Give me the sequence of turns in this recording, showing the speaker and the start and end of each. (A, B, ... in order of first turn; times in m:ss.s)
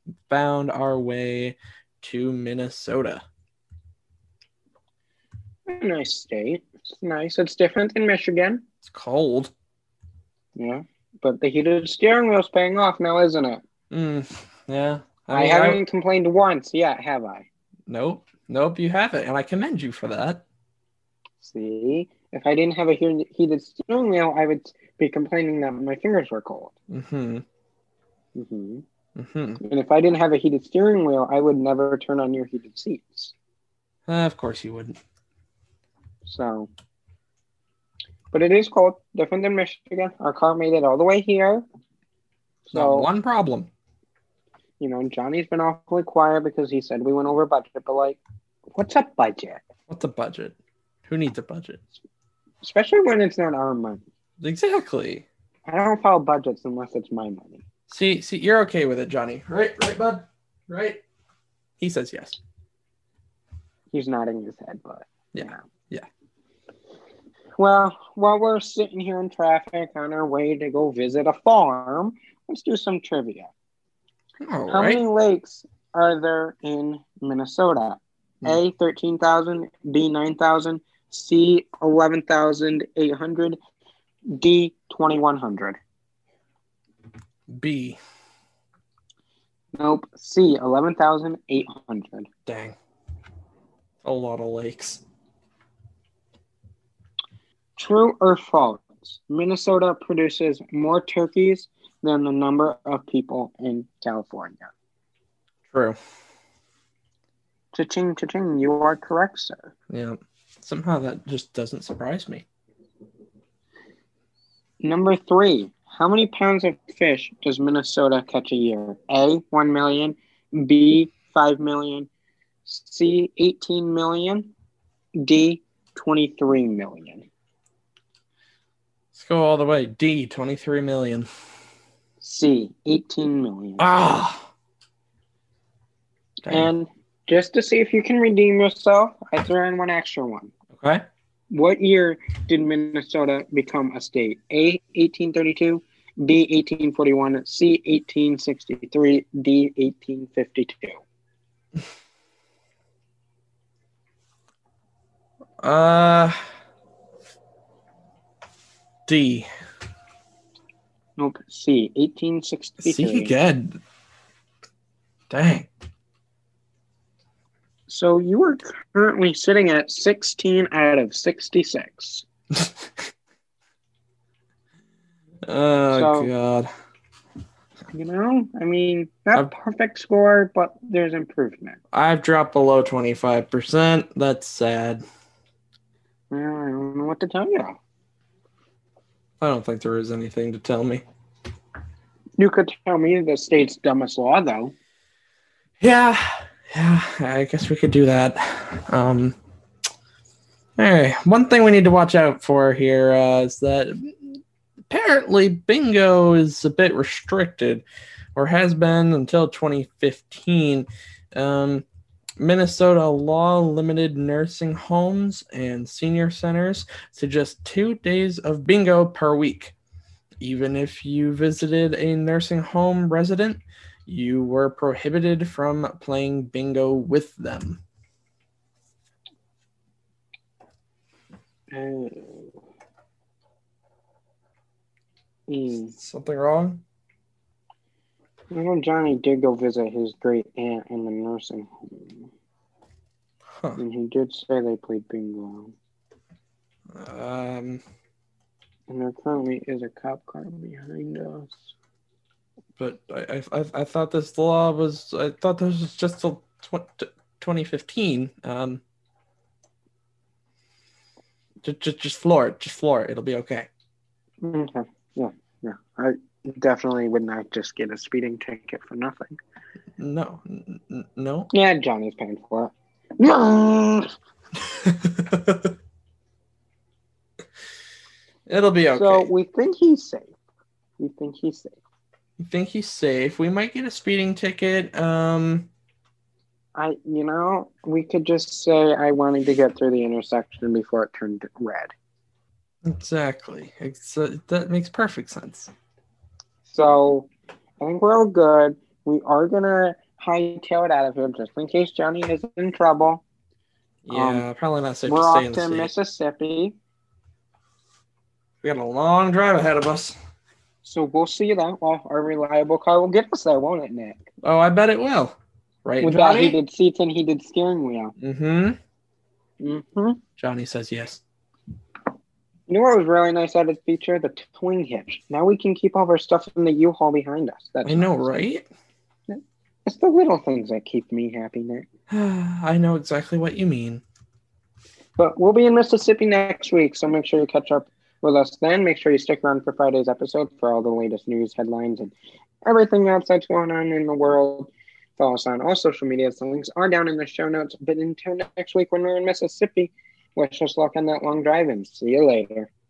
0:00.3-0:03.2 A
0:05.7-0:08.6 B
0:08.8-0:09.5 A
0:10.6-0:13.6 B
0:13.9-0:15.8 A
0:15.3-0:17.4 B
0:17.9-0:20.4 A
0:21.4-0:26.7 B
0:26.9-0:27.4 A
0:28.3-0:28.8 B
0:29.2-0:29.6 A
0:29.6-0:33.3 B
0:34.1-0:35.0 A
0:36.2-0:36.7 B
0:38.3-0:41.6 B
0:42.7-0:43.1 B
0:42.7-0:43.7 A
0:44.8-0:48.2 B
0:48.7-0:49.6 B
0:49.9-0:50.6 A
0:51.1-0:51.8 A
0:52.6-0:54.0 B
0:54.4-0:55.2 A
0:55.7-0:57.6 B
0:57.9-1:01.0 A
1:01.8-1:02.4 A
1:03.9-1:05.6 B
1:05.3-1:06.1 A
1:07.6-1:13.5 B
1:14.4-1:15.0 A
1:14.7-1:23.6 B
1:24.3-1:25.8 B
1:27.5-1:28.0 A
1:29.7-1:32.3 B
1:32.4-1:32.8 A
1:34.0-1:35.0 A
1:37.8-1:44.7 B
1:45.7-1:46.0 A
1:47.7-1:49.7 B
1:49.9-1:52.4 A
1:54.8-2:02.1 B
2:02.6-2:04.5 B
2:05.2-2:07.2 B
2:09.1-2:11.3 A
2:12.2-2:13.9 B
2:13.8-2:14.5 A
2:16.5-2:20.5 B
2:20.7-2:21.0 A
2:21.5-2:31.0 B
2:35.6-2:36.4 A
2:39.1-2:39.5 A
2:41.2-2:43.3 B
2:42.8-2:43.8 A
2:45.3-2:45.7 A
2:47.9-2:52.2 B
2:55.4-2:56.7 A
2:55.9-2:56.3 B
2:57.9-3:01.8 B
3:01.9-3:05.0 A
3:06.3-3:07.8 B
3:09.4-3:11.0 A
3:12.4-3:14.7 B
3:15.8-3:19.4 A
3:20.8-3:27.8 A
3:28.3-3:31.8 A
3:32.4-3:39.7 A
3:40.4-3:47.8 A
3:51.7-3:52.6 B
3:55.5-3:55.9 B
3:55.9-3:56.8 A
3:58.5-4:02.3 B
4:03.8-4:05.7 B
4:06.9-4:07.8 A
4:08.9-4:11.7 B
4:12.8-4:18.8 A
4:21.6-4:23.7 A
4:24.4-4:29.3 B
4:30.0-4:31.5 A
4:31.5-4:34.1 B
4:34.8-4:35.7 A
4:38.5-4:39.3 A
4:38.9-4:40.3 B
4:41.0-4:41.8 B
4:42.4-4:45.7 A
4:46.8-4:51.9 B
4:52.8-4:55.7 A
4:56.7-4:57.3 B
4:57.8-5:03.2 B
5:04.0-5:05.9 A
5:04.1-5:04.5 B
5:05.0-5:06.8 B
5:08.6-5:10.2 A
5:10.8-5:14.3 B
5:14.4-5:16.6 A
5:16.0-5:18.1 B
5:18.2-5:18.8 A
5:19.6-5:20.2 B
5:20.4-5:21.2 A
5:22.7-5:28.3 B
5:27.8-5:28.7 A
5:29.3-5:31.9 B
5:32.1-5:34.0 A
5:35.2-5:42.1 B
5:42.6-5:52.7 B